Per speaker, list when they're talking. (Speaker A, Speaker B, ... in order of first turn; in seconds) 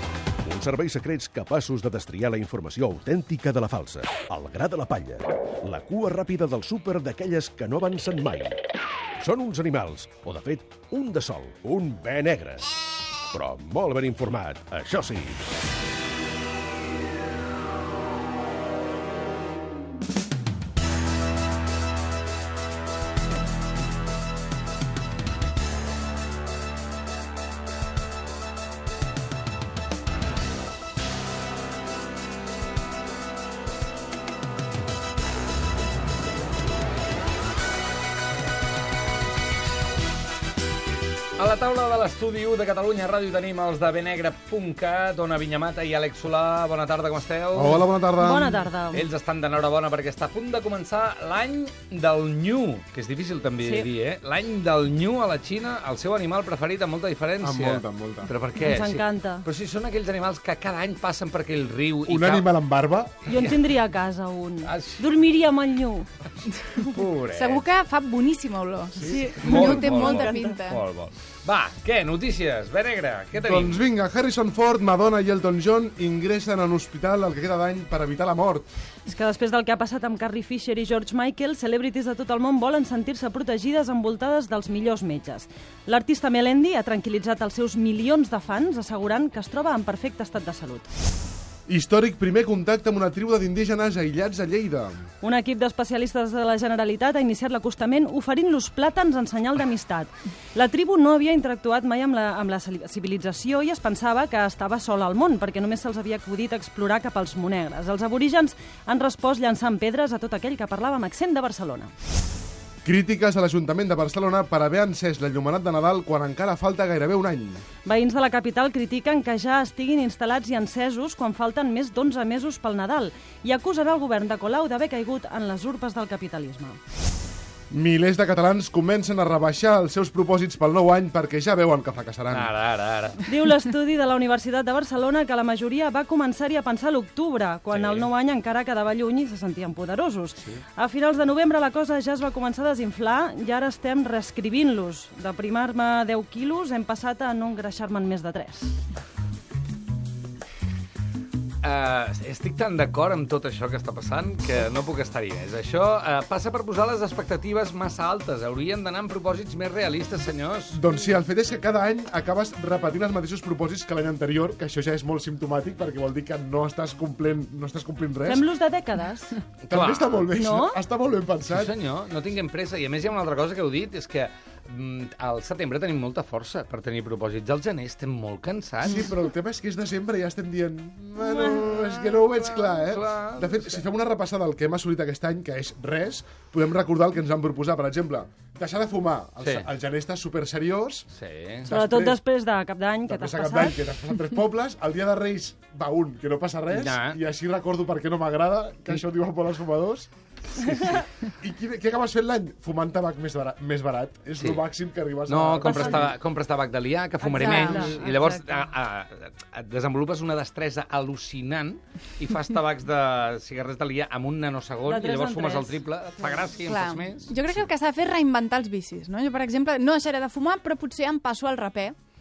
Speaker A: 0.4-8.6, 9.2-12.7, 13.3-15.4
Speaker B: 41.4-47.9, 48.9-62.5, 63.3-63.6, 64.6-65.1, 66.9-67.7, 69.1-73.8, 132.3-133.2, 137.7-138.1, 151.6-160.8, 169.7-170.3, 171.5-179.1, 181.2-183.8, 189.4-189.7, 191.1-191.6, 196.7-197.2, 204.4-204.6, 205.3-217.6
Speaker C: 47.5-48.7, 57.4-58.3, 62.1-63.1, 73.4-78.7, 91.7-95.0, 112.8-117.6, 127.7-132.5, 160.7-168.4, 169.7-171.7, 178.9-191.1, 191.6-192.2, 193.1-206.1, 207.4-207.9
Speaker D: 48.2-49.0, 53.6-53.9, 58.6-59.5, 63.2-66.1, 69.5-70.4, 79.0-90.9, 95.2-111.9, 117.8-126.8, 133.2-148.8, 168.2-169.4, 170.3-170.8, 191.7-193.8, 205.6-206.1, 207.2-208.7, 214.8-215.8
Speaker E: 67.3-70.8, 216.6-221.9